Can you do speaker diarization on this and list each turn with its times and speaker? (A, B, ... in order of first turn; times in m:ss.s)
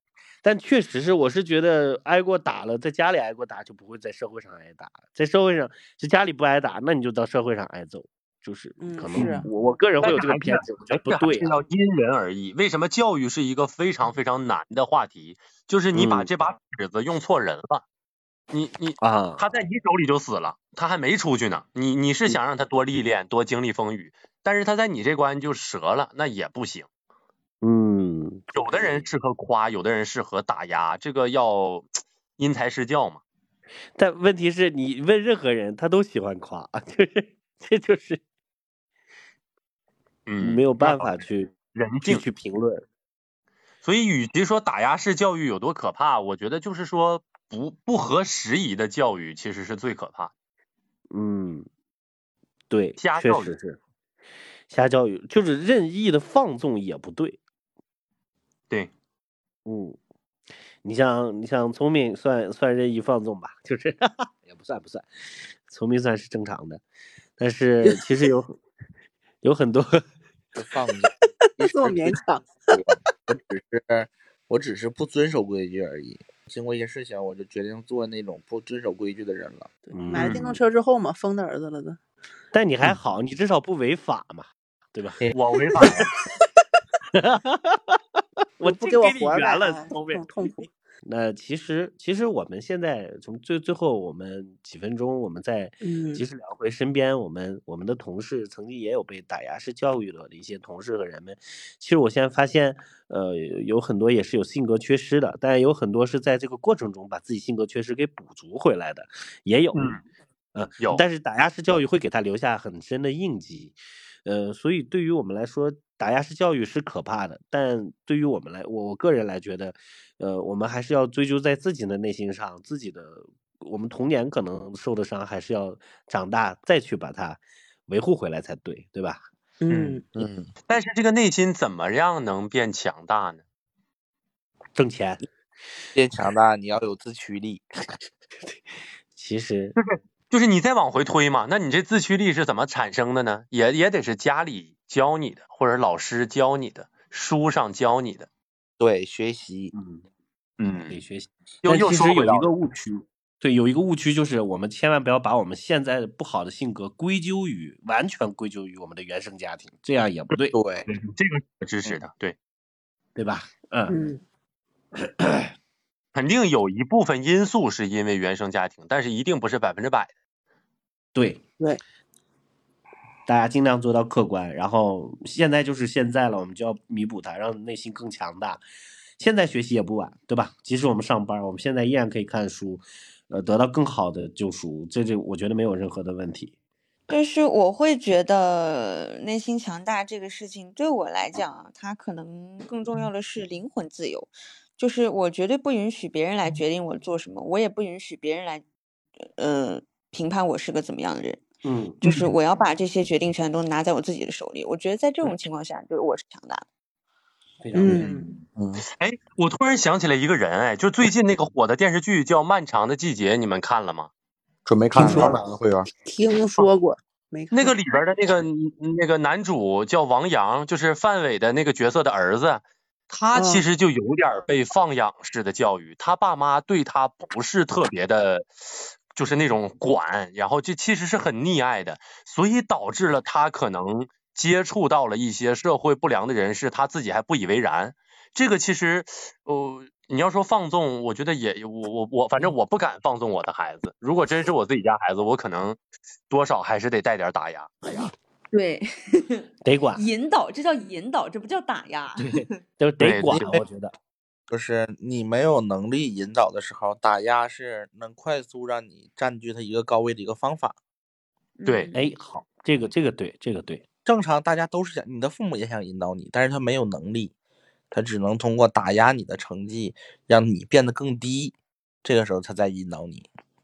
0:00.4-0:11.5 A
0:08.8-0:09.5 B
0:10.0-0:17.8 C
0:15.9-0:16.3 A
0:18.5-0:26.9 C
0:19.0-0:19.4 A
0:27.6-0:28.5 A
0:28.5-0:33.2 C
0:34.0-0:38.2 A
0:40.3-0:41.2 C
0:40.4-0:41.5 A
0:41.7-0:42.3 C
0:42.0-0:42.9 A
0:43.8-0:50.3 C
0:51.1-0:51.7 A
0:52.7-0:53.8 A
0:53.0-0:53.5 C
0:54.7-0:57.4 A
0:59.7-1:00.0 A
1:00.8-1:05.1 A
1:05.7-1:06.8 A
1:07.4-1:08.6 A
1:09.4-1:10.0 A
1:10.6-1:12.2 D
1:11.6-1:12.7 B
1:12.7-1:19.7 D
1:19.9-1:22.0 B
1:19.9-1:20.4 A
1:20.1-1:20.4 C
1:22.5-1:25.3 A
1:25.2-1:26.0 D
1:25.3-1:26.1 C
1:27.1-1:28.0 A
1:28.6-1:30.5 A
1:28.6-1:30.7 B
1:31.0-1:49.9 A
1:35.8-1:36.2 B
1:49.7-1:50.0 C
1:50.5-2:09.2 A
1:50.8-1:51.0 C
2:09.6-2:10.0 B
2:09.7-2:10.0 C
2:10.2-2:10.5 E
2:10.7-2:13.4 C
2:14.8-2:15.2 A
2:16.0-2:17.6 D
2:19.1-2:19.8 A
2:19.8-2:28.3 C
2:28.8-2:29.7 D
2:29.8-2:30.0 A
2:30.6-2:31.0 C
2:30.9-2:40.6 A
2:31.6-2:32.5 C
2:40.5-2:40.9 D
2:40.9-2:42.4 C
2:43.2-2:44.0 A
2:43.9-2:44.2 B
2:45.0-2:45.5 A
2:46.2-2:50.1 C
2:51.2-2:51.4 A
2:53.3-2:58.6 A
2:59.2-3:06.5 A
3:07.1-3:18.6 F
3:19.4-3:21.4 F
3:21.6-3:22.0 A
3:22.0-3:26.6 F
3:22.0-3:22.3 C
3:27.6-3:28.3 A
3:27.8-3:28.3 B
3:28.6-3:28.8 E
3:29.0-3:34.1 C
3:34.6-3:35.9 E
3:35.0-3:35.4 B
3:35.0-3:35.3 A
3:36.1-3:37.8 B
3:37.5-3:48.5 C
3:43.3-3:43.6 B
3:49.1-4:05.8 C
4:06.3-4:08.1 C
4:08.5-4:09.4 F
4:09.6-4:10.0 A
4:10.0-4:12.5 F
4:12.2-4:13.9 A
4:13.0-4:13.6 C
4:13.3-4:13.6 D
4:14.5-4:20.8 D
4:21.6-4:22.0 F
4:21.6-4:21.9 C
4:21.9-4:23.8 A
4:24.1-4:27.3 D
4:27.9-4:33.3 D